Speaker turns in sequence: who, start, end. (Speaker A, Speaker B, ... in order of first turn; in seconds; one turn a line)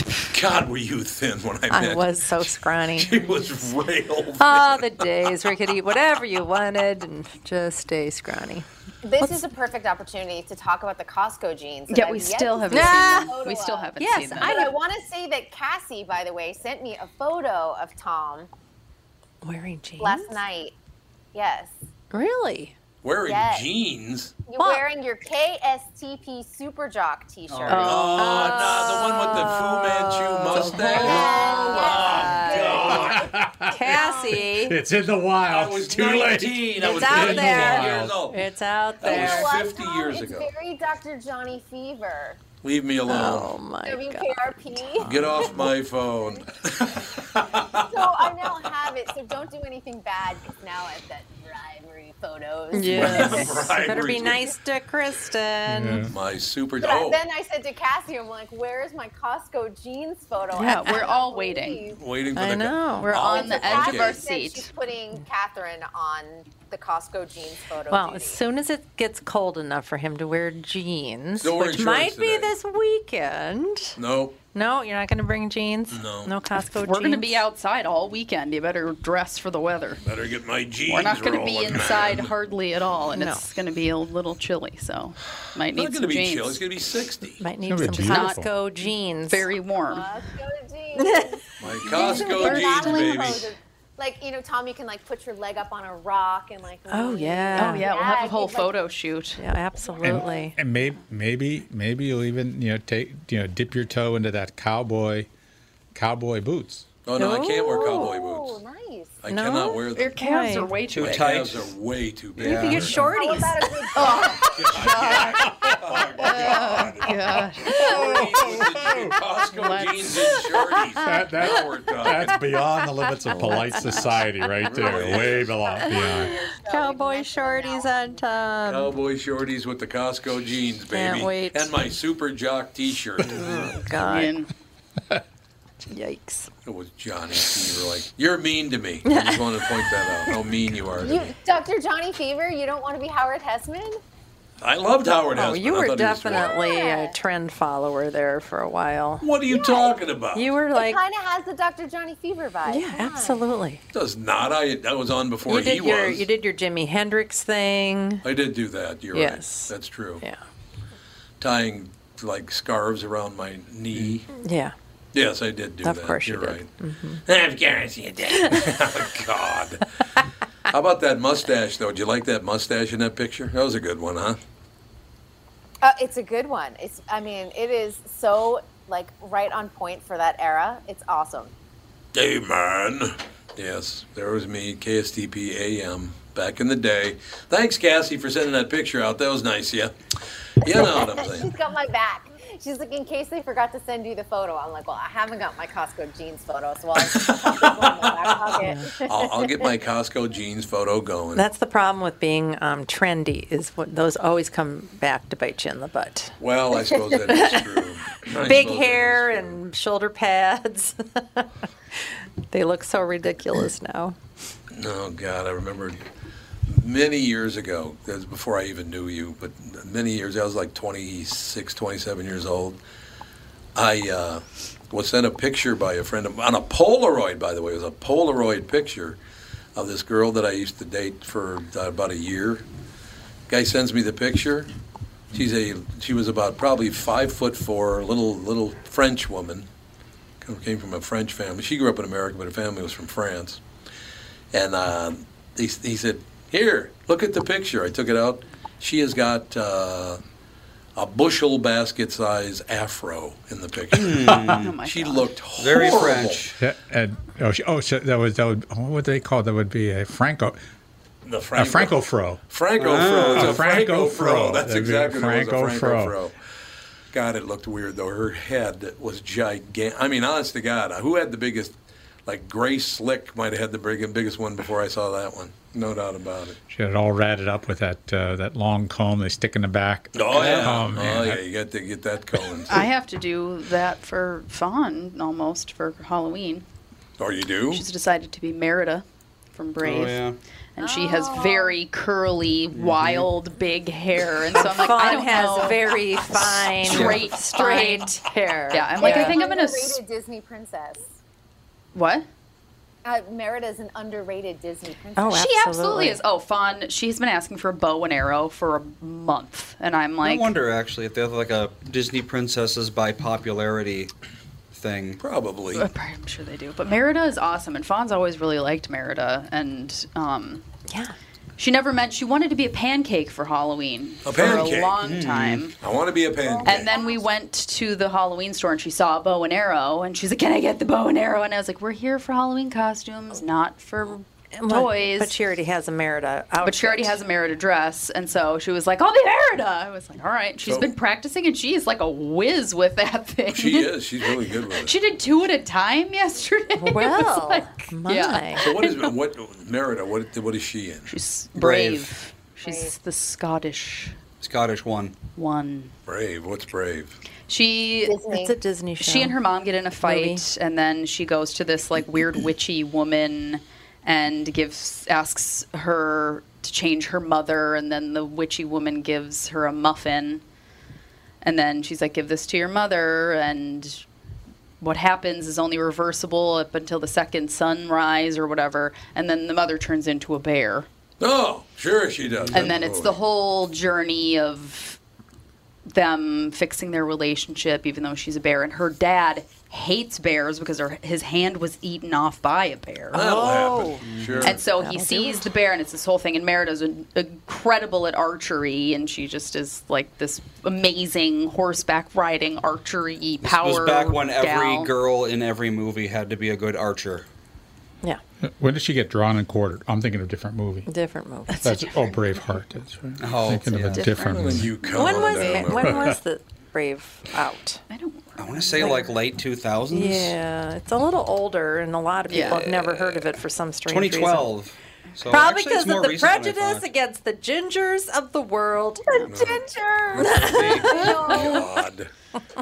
Speaker A: 0.3-5.0
Speaker B: 1.7-3.2
Speaker B: 4.4-8.7
Speaker C: 9.0-18.5
Speaker D: 11.9-14.7
Speaker B: 12.7-13.4
Speaker B: 14.0-14.8
Speaker B: 19.4-20.4
Speaker C: 20.0-20.8
Speaker C: 21.3-21.8
Speaker B: 22.1-22.8
Speaker A: 23.0-24.4
Speaker C: 23.2-23.7
Speaker C: 24.5-28.2
Speaker B: 24.6-24.9
Speaker E: 27.5-27.9
Speaker B: 27.7-33.1
Speaker A: 27.8-33.3
Speaker C: 30.8-34.4
Speaker F: 33.1-38.2
Speaker B: 33.7-34.8
Speaker A: 35.5-38.4
Speaker B: 36.8-39.6
Speaker A: 39.0-40.5
Speaker C: 39.0-42.4
Speaker A: 42.6-43.5
Speaker B: 43.1-44.4
Speaker C: 43.9-45.7
Speaker A: 45.0-48.7
Speaker C: 47.7-53.7
Speaker B: 52.7-56.1
Speaker A: 52.9-54.5
Speaker F: 55.7-56.1
Speaker A: 56.1-57.2
Speaker C: 56.8-62.0
Speaker B: 60.6-61.1
Speaker D: 60.6-61.9
Speaker A: 61.9-64.2
Speaker B: 62.4-63.2
Speaker D: 63.0-64.7
Speaker C: 63.1-68.4
Speaker B: 67.9-74.0
Speaker A: 71.4-72.5
Speaker A: 74.0-74.4
Speaker B: 74.5-77.4
Speaker A: 75.9-76.3
Speaker D: 76.8-80.0
Speaker A: 80.0-82.3
Speaker D: 80.9-86.6
Speaker B: 83.1-83.5
Speaker A: 85.7-87.4
Speaker B: 87.4-89.5
Speaker F: 87.7-88.5
Speaker D: 88.0-88.5
Speaker D: 89.3-90.1
Speaker C: 89.9-98.8
Speaker B: 91.0-91.4
Speaker A: 91.6-93.5
Speaker B: 92.0-92.3
Speaker D: 92.0-93.2
Speaker B: 96.9-97.9
Speaker D: 97.5-99.4
Speaker B: 99.4-100.6
Speaker C: 99.8-100.4
Speaker F: 100.0-105.3
Speaker F: 105.9-106.9
Speaker A: 107.0-108.6
Speaker B: 107.2-108.1
Speaker C: 107.7-109.2
Speaker A: 109.2-110.2
Speaker B: 109.3-110.7
Speaker D: 110.0-111.4
Speaker E: 110.9-111.7
Speaker A: 111.0-113.0
Speaker E: 112.4-113.0
Speaker B: 112.4-115.2
Speaker C: 113.1-114.9
Speaker D: 114.0-115.3
Speaker A: 114.5-122.4
Speaker B: 116.3-116.5
Speaker D: 116.3-118.0
Speaker B: 117.7-118.2
Speaker C: 117.8-118.5
Speaker D: 119.5-120.1
Speaker F: 121.0-126.3
Speaker B: 123.2-124.1
Speaker A: 124.7-125.5
Speaker C: 124.9-128.3
Speaker B: 125.8-128.9
Speaker A: 128.7-133.8
Speaker B: 130.9-131.7
Speaker B: 133.2-134.4
Speaker D: 134.0-134.5
Speaker B: 135.9-136.5
Speaker A: 136.7-141.3
Speaker B: 139.1-139.4
Speaker C: 141.0-144.0
Speaker A: 144.6-146.5
Speaker B: 145.3-149.2
Speaker C: 146.3-147.2
Speaker A: 149.2-150.5
Speaker C: 149.5-149.9
Speaker B: 150.3-151.0
Speaker C: 150.7-153.4
Speaker B: 152.7-153.8
Speaker A: 153.9-156.3
Speaker B: 155.5-158.2
Speaker A: 158.2-160.2
Speaker B: 159.1-160.4
Speaker A: 161.4-164.3
Speaker B: 164.3-164.7
Speaker A: 165.1-166.7
Speaker B: 165.8-167.2
Speaker A: 167.2-169.9
Speaker A: 170.7-174.4
Speaker C: 175.8-181.5
Speaker A: 182.1-189.9
Speaker A: 190.6-191.5
Speaker C: 190.7-199.5
Speaker A: 197.0-198.5
Speaker A: 199.0-201.4
Speaker B: 201.3-206.3
Speaker A: 206.4-209.6
Speaker B: 207.3-207.6
Speaker B: 208.3-211.5
Speaker B: 212.5-214.2
Speaker A: 214.7-216.1
Speaker A: 216.7-222.8
Speaker A: 223.8-229.2
Speaker A: 229.8-232.6
Speaker A: 233.5-234.7
Speaker A: 235.3-239.7
Speaker A: 240.4-243.6
Speaker A: 244.5-250.2
Speaker A: 251.0-256.4
Speaker E: 253.9-254.7
Speaker D: 254.5-255.3
Speaker E: 255.6-256.6
Speaker F: 256.6-260.6
Speaker A: 261.2-266.4
Speaker F: 261.6-262.4
Speaker E: 262.8-263.6
Speaker F: 263.3-266.2
Speaker A: 267.1-271.8
Speaker A: 272.3-276.6
Speaker F: 276.7-281.4
Speaker A: 280.1-282.9
Speaker E: 280.3-280.8
Speaker D: 282.7-286.6
Speaker A: 287.2-287.9
Speaker D: 287.7-290.2
Speaker E: 289.8-290.4
Speaker D: 290.8-298.1
Speaker C: 290.8-291.7
Speaker E: 292.7-293.3
Speaker B: 294.5-299.4
Speaker E: 296.9-297.2
Speaker D: 298.7-300.0
Speaker C: 299.0-301.1
Speaker D: 301.9-302.3
Speaker C: 303.0-305.4
Speaker B: 305.2-306.2
Speaker D: 305.3-310.5
Speaker E: 310.2-314.1
Speaker E: 314.7-315.2
Speaker A: 315.2-315.9
Speaker D: 315.7-320.6
Speaker B: 320.9-321.1
Speaker D: 321.6-325.8
Speaker A: 324.2-325.0
Speaker E: 325.0-325.7
Speaker A: 325.8-326.9
Speaker C: 326.6-327.2
Speaker D: 326.6-335.4
Speaker B: 334.6-337.2
Speaker D: 336.6-349.1
Speaker A: 340.6-340.9
Speaker A: 343.5-344.9
Speaker B: 346.8-348.6
Speaker A: 348.6-351.1
Speaker D: 351.1-354.2
Speaker E: 351.6-352.1
Speaker C: 352.6-352.9
Speaker E: 354.4-355.2
Speaker D: 355.4-355.9
Speaker A: 356.1-357.2
Speaker D: 357.5-358.2
Speaker C: 358.1-358.5
Speaker B: 358.3-359.4
Speaker D: 359.0-370.4
Speaker B: 360.0-360.4
Speaker D: 371.4-374.1
Speaker D: 374.8-380.9
Speaker A: 381.2-383.2
Speaker D: 382.5-385.0
Speaker D: 385.9-393.3
Speaker A: 393.1-394.6
Speaker B: 393.1-395.5
Speaker E: 394.1-394.5
Speaker D: 394.4-404.9
Speaker E: 403.4-407.3
Speaker F: 408.4-410.9
Speaker B: 410.9-411.9
Speaker F: 411.6-414.8
Speaker E: 413.2-414.1
Speaker D: 413.9-414.6
Speaker A: 414.3-416.1
Speaker B: 414.8-417.8
Speaker F: 415.6-416.2
Speaker D: 417.9-419.0
Speaker E: 418.4-420.4
Speaker B: 418.8-419.1
Speaker B: 419.9-424.5
Speaker D: 422.3-422.7
Speaker E: 422.9-423.2
Speaker E: 423.9-426.9
Speaker B: 425.3-429.3
Speaker C: 429.2-430.2
Speaker A: 429.2-429.6
Speaker B: 430.1-431.7
Speaker E: 430.2-431.1
Speaker A: 430.2-430.4
Speaker C: 430.9-431.7
Speaker A: 431.3-432.1